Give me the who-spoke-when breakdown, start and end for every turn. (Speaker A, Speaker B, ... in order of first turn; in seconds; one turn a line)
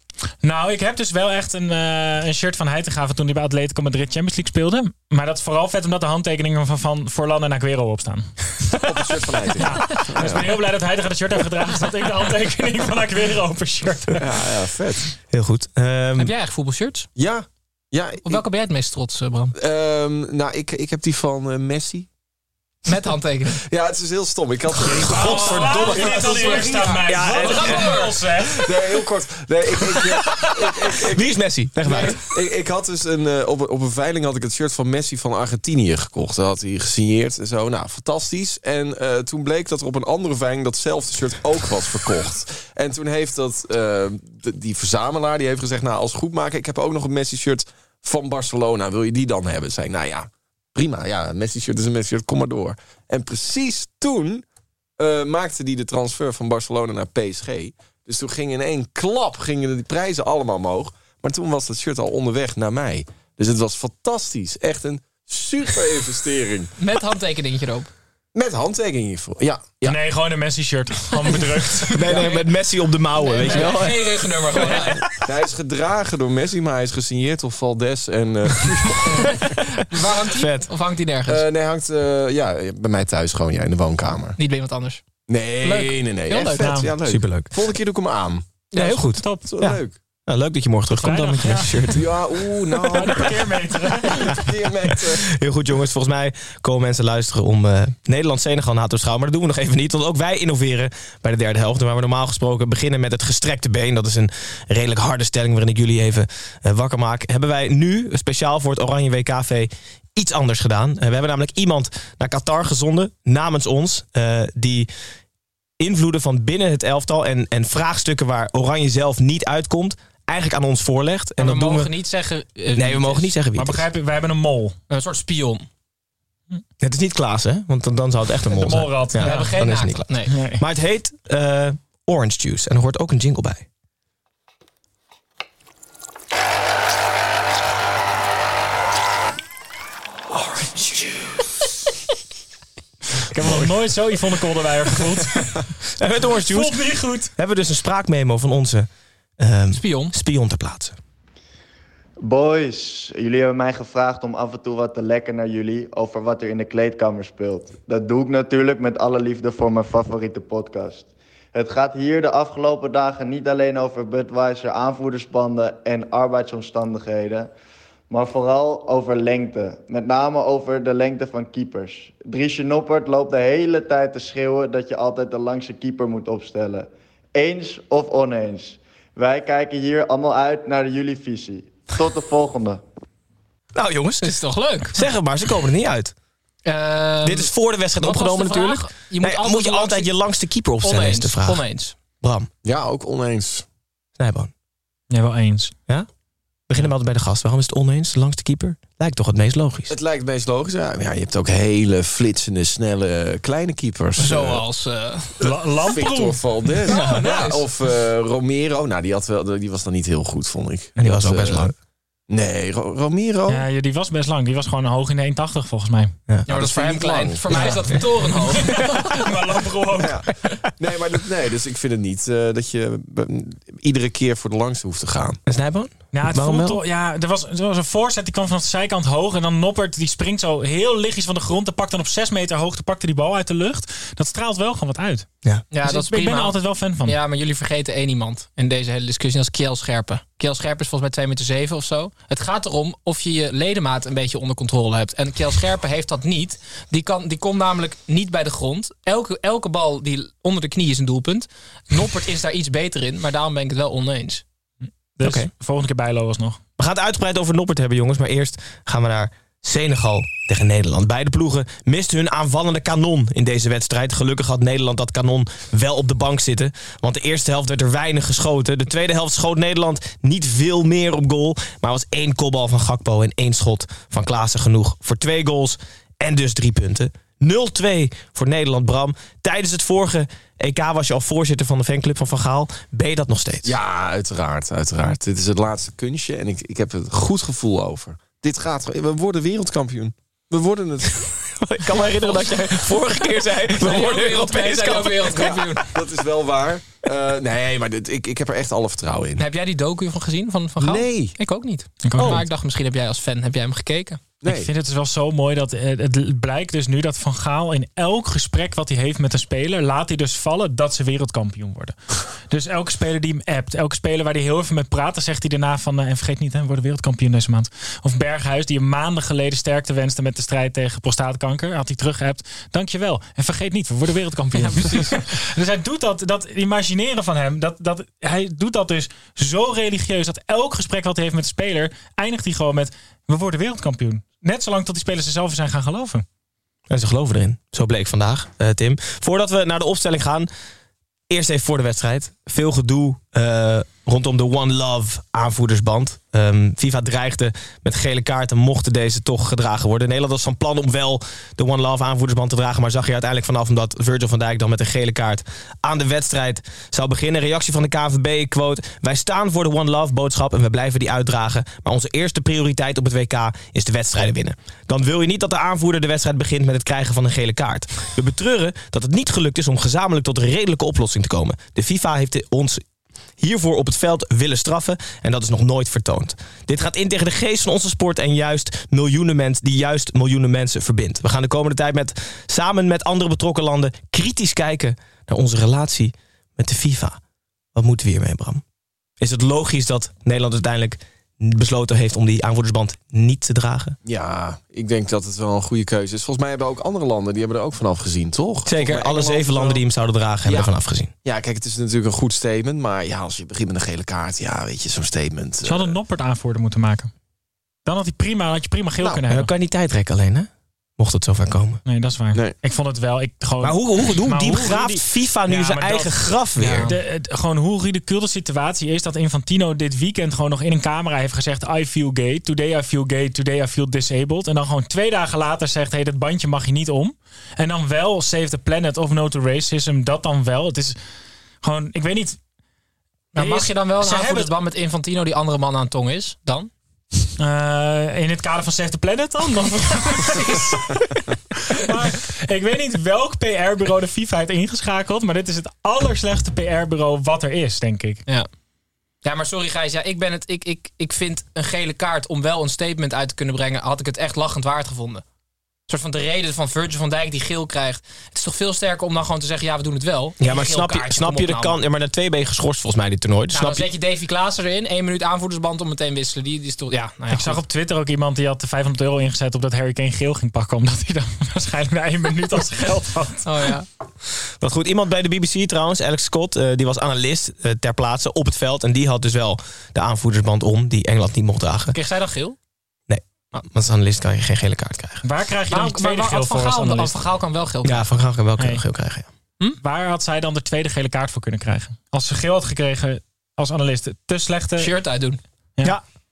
Speaker A: 0.4-14.3
Speaker B: 8.8-10.5
Speaker B: 14.2-15.1
Speaker C: 15.3-16.3
Speaker D: 16.2-17.1
Speaker B: 17.1-18.4
Speaker D: 18.2-19.5
Speaker B: 19.6-22.1
Speaker D: 22.9-23.6
Speaker B: 23.6-54.4
Speaker A: 24.9-28.7
Speaker C: 25.1-28.0
Speaker D: 25.6-28.1
Speaker C: 31.1-32.2
Speaker B: 55.0-66.7
Speaker D: 66.8-67.9
Speaker B: 68.3-70.0
Speaker A: 69.8-72.3
Speaker C: 71.9-74.3
Speaker D: 72.0-72.5
Speaker D: 73.1-75.0
Speaker B: 74.6-79.3
Speaker D: 79.0-81.4
Speaker C: 80.1-80.7
Speaker B: 81.3-84.4
Speaker D: 84.4-85.0
Speaker B: 85.3-88.4
Speaker D: 85.6-86.7
Speaker A: 86.6-86.9
Speaker C: 87.0-87.5
Speaker D: 88.7-89.0
Speaker C: 88.7-92.1
Speaker A: 89.2-89.4
Speaker B: 89.5-89.9
Speaker A: 91.0-92.0
Speaker B: 91.9-93.3
Speaker A: 92.8-94.5
Speaker B: 94.1-95.3
Speaker C: 95.3-114.9
Speaker C: 115.8-121.9
Speaker D: 121.4-123.3
Speaker C: 122.7-123.8
Speaker A: 123.5-124.8
Speaker D: 124.9-125.7
Speaker C: 126.8-133.7
Speaker A: 128.5-129.6
Speaker D: 129.2-130.3
Speaker A: 130.3-130.6
Speaker A: 143.2-145.7
Speaker C: 146.0-146.8
Speaker A: 146.3-147.3
Speaker C: 147.3-150.9
Speaker D: 149.7-150.1
Speaker E: 152.2-167.5
Speaker E: 168.1-182.8
Speaker C: 183.7-184.3
Speaker D: 184.2-185.0
Speaker C: 184.9-186.1
Speaker D: 186.6-190.1
Speaker C: 187.2-191.6
Speaker D: 190.8-191.9
Speaker C: 192.2-192.5
Speaker B: 192.6-193.6
Speaker C: 194.2-194.5
Speaker A: 195.1-195.7
Speaker C: 196.7-199.9
Speaker B: 199.9-204.6
Speaker D: 204.2-205.3
Speaker B: 205.4-211.7
Speaker A: 205.4-206.4
Speaker D: 206.9-207.6
Speaker C: 206.9-207.2
Speaker C: 211.0-211.7
Speaker B: 212.3-213.6
Speaker A: 213.5-216.1
Speaker B: 216.5-217.7
Speaker D: 216.5-219.1
Speaker A: 217.5-220.2
Speaker B: 219.9-225.4
Speaker C: 225.4-226.8
Speaker A: 226.1-235.2
Speaker D: 235.7-254.4
Speaker A: 235.8-237.2
Speaker A: 255.2-256.6
Speaker C: 255.2-255.5
Speaker C: 256.8-283.7
Speaker B: 283.6-291.2
Speaker C: 291.5-295.6
Speaker D: 292.0-292.8
Speaker D: 293.6-295.9
Speaker B: 295.9-299.4
Speaker D: 299.4-304.2
Speaker B: 300.8-301.3
Speaker A: 302.0-302.4
Speaker B: 304.4-304.7
Speaker A: 304.4-336.2
Speaker D: 324.6-325.2
Speaker C: 336.9-340.5
Speaker C: 341.3-372.8
Speaker C: 373.4-387.2
Speaker C: 387.7-388.6
Speaker C: 389.2-394.0
Speaker B: 394.0-399.8
Speaker C: 398.6-401.1
Speaker B: 400.4-400.7
Speaker B: 401.2-405.9
Speaker A: 405.6-407.1
Speaker A: 407.9-409.5
Speaker C: 409.2-411.8
Speaker A: 411.9-416.2
Speaker C: 413.6-416.9
Speaker D: 416.6-416.9
Speaker A: 416.8-430.9
Speaker A: 431.6-432.4
Speaker A: 433.3-434.5
Speaker D: 433.3-436.7
Speaker A: 437.4-448.2
Speaker D: 440.2-440.7
Speaker D: 449.2-455.2
Speaker D: 455.9-461.8
Speaker C: 460.4-463.9
Speaker D: 463.5-467.6
Speaker A: 467.3-473.7
Speaker D: 473.4-473.9
Speaker C: 474.6-481.9
Speaker D: 481.9-482.6
Speaker C: 483.1-485.2
Speaker A: 485.2-487.2
Speaker D: 485.7-488.1
Speaker C: 487.8-489.3
Speaker A: 488.6-488.8
Speaker A: 489.8-494.9
Speaker D: 494.8-495.4